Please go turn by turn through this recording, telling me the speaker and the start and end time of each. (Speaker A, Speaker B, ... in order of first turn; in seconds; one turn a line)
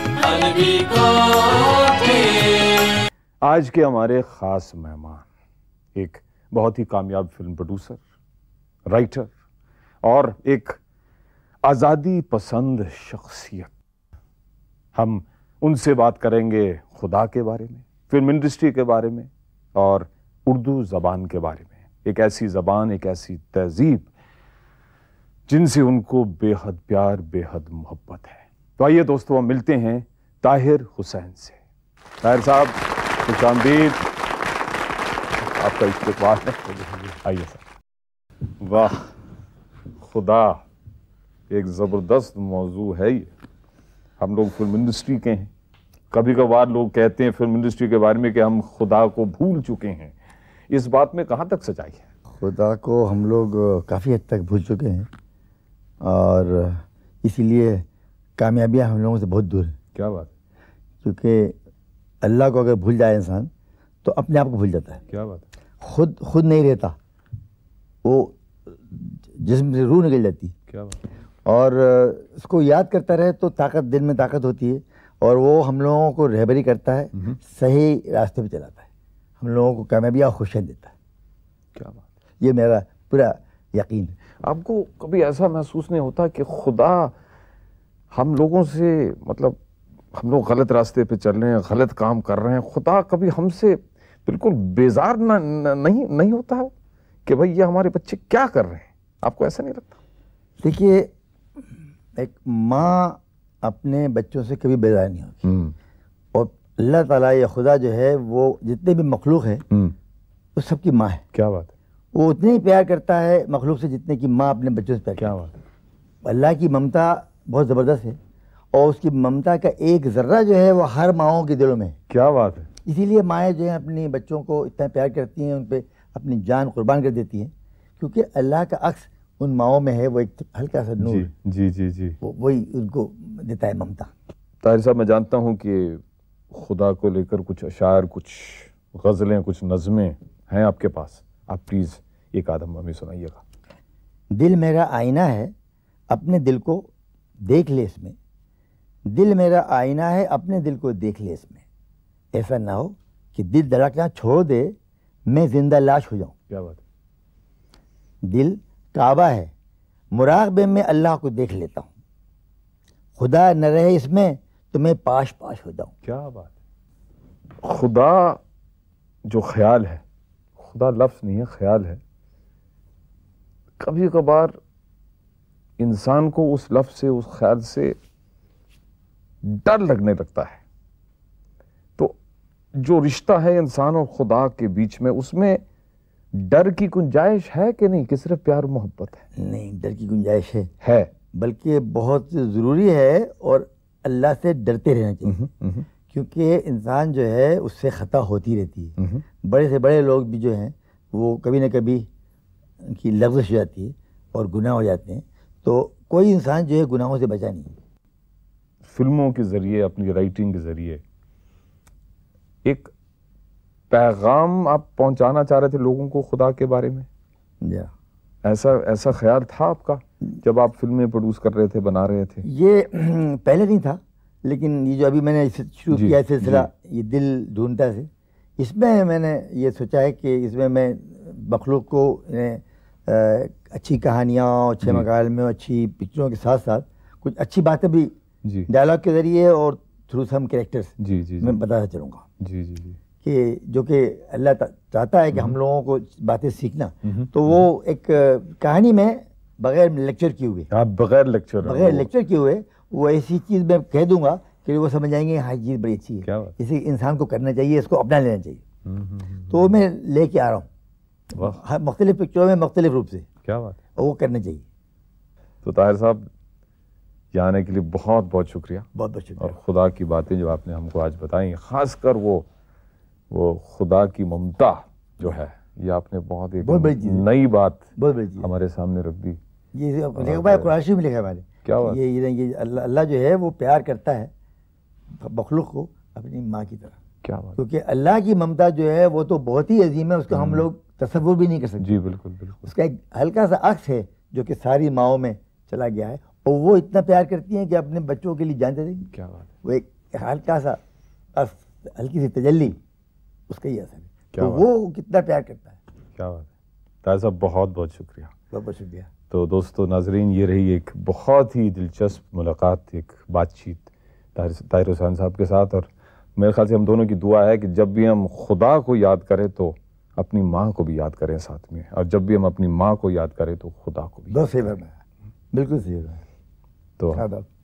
Speaker A: 0.2-2.6
Speaker B: 3.4-5.3
Speaker B: 6.0-8.0
Speaker B: 8.9-9.3
Speaker B: 10.0-10.8
Speaker B: 11.6-13.7
Speaker B: 14.9-24.1
Speaker B: 25.5-31.6
Speaker B: 32.2-34.0
Speaker B: 35.4-37.6
Speaker B: 38.6-39.1
Speaker B: 40.0-40.6
Speaker B: 41.5-43.3
Speaker B: 44.2-45.5
Speaker B: 46.1-50.1
Speaker B: 50.7-52.0
Speaker C: 52.4-55.1
Speaker C: 56.0-57.9
Speaker C: 58.4-59.7
Speaker B: 60.0-60.3
Speaker C: 61.0-61.5
Speaker C: 62.2-63.5
Speaker C: 64.0-65.0
Speaker B: 65.1-65.5
Speaker C: 65.8-67.0
Speaker C: 68.0-70.5
Speaker B: 70.7-71.0
Speaker C: 71.5-78.8
Speaker C: 79.4-80.9
Speaker B: 81.8-82.0
Speaker C: 82.4-84.2
Speaker B: 84.4-87.1
Speaker B: 88.1-89.6
Speaker B: 90.1-96.7
Speaker B: 97.3-100.0
Speaker C: 100.6-101.1
Speaker C: 102.2-105.5
Speaker B: 105.4-105.7
Speaker C: 106.3-109.7
Speaker C: 110.6-111.2
Speaker B: 111.3-111.7
Speaker C: 112.1-115.3
Speaker B: 115.2-115.5
Speaker C: 116.2-118.2
Speaker C: 118.7-122.0
Speaker B: 122.1-122.7
Speaker C: 122.8-131.3
Speaker B: 131.0-132.2
Speaker C: 132.2-134.1
Speaker B: 134.6-143.4
Speaker C: 144.3-145.5
Speaker C: 146.1-148.2
Speaker C: 149.1-151.6
Speaker C: 152.3-154.8
Speaker C: 155.3-156.3
Speaker B: 156.5-156.8
Speaker C: 158.2-159.5
Speaker C: 160.1-161.9
Speaker C: 163.2-165.9
Speaker B: 166.0-166.5
Speaker B: 167.6-168.4
Speaker B: 169.3-170.0
Speaker B: 170.6-172.0
Speaker B: 173.8-174.5
Speaker B: 175.8-178.0
Speaker B: 179.4-180.6
Speaker B: 182.8-185.6
Speaker B: 186.3-189.2
Speaker C: 189.4-190.7
Speaker B: 190.8-191.1
Speaker C: 191.3-195.4
Speaker B: 195.3-195.9
Speaker C: 196.1-202.1
Speaker C: 202.8-207.7
Speaker B: 208.8-211.0
Speaker B: 212.7-212.9
Speaker B: 213.9-217.1
Speaker C: 217.6-217.9
Speaker B: 218.4-222.4
Speaker C: 222.4-238.1
Speaker B: 225.9-226.7
Speaker C: 238.7-242.3
Speaker B: 241.0-241.6
Speaker B: 242.4-243.0
Speaker C: 243.2-250.7
Speaker B: 247.1-247.7
Speaker B: 250.7-252.1
Speaker C: 251.6-258.6
Speaker B: 256.2-256.6
Speaker B: 258.9-259.7
Speaker C: 259.5-260.7
Speaker C: 261.3-263.3
Speaker B: 263.4-263.8
Speaker C: 264.0-264.6
Speaker B: 265.6-266.3
Speaker B: 267.3-268.9
Speaker C: 268.9-269.6
Speaker B: 269.4-272.5
Speaker B: 273.3-277.8
Speaker C: 276.6-277.3
Speaker C: 278.0-278.5
Speaker B: 278.4-279.4
Speaker C: 279.7-284.3
Speaker B: 280.2-280.7
Speaker B: 281.6-282.0
Speaker C: 285.2-287.0
Speaker B: 287.2-287.6
Speaker C: 287.6-291.9
Speaker B: 290.3-290.7
Speaker B: 291.8-292.7
Speaker C: 292.6-299.1
Speaker B: 299.1-299.5
Speaker C: 299.6-300.8
Speaker C: 301.4-302.8
Speaker C: 303.5-305.8
Speaker B: 304.3-304.6
Speaker B: 306.2-306.5
Speaker B: 307.0-308.3
Speaker C: 308.5-309.1
Speaker B: 309.3-324.7
Speaker C: 324.3-325.0
Speaker C: 325.5-326.2
Speaker C: 327.1-327.5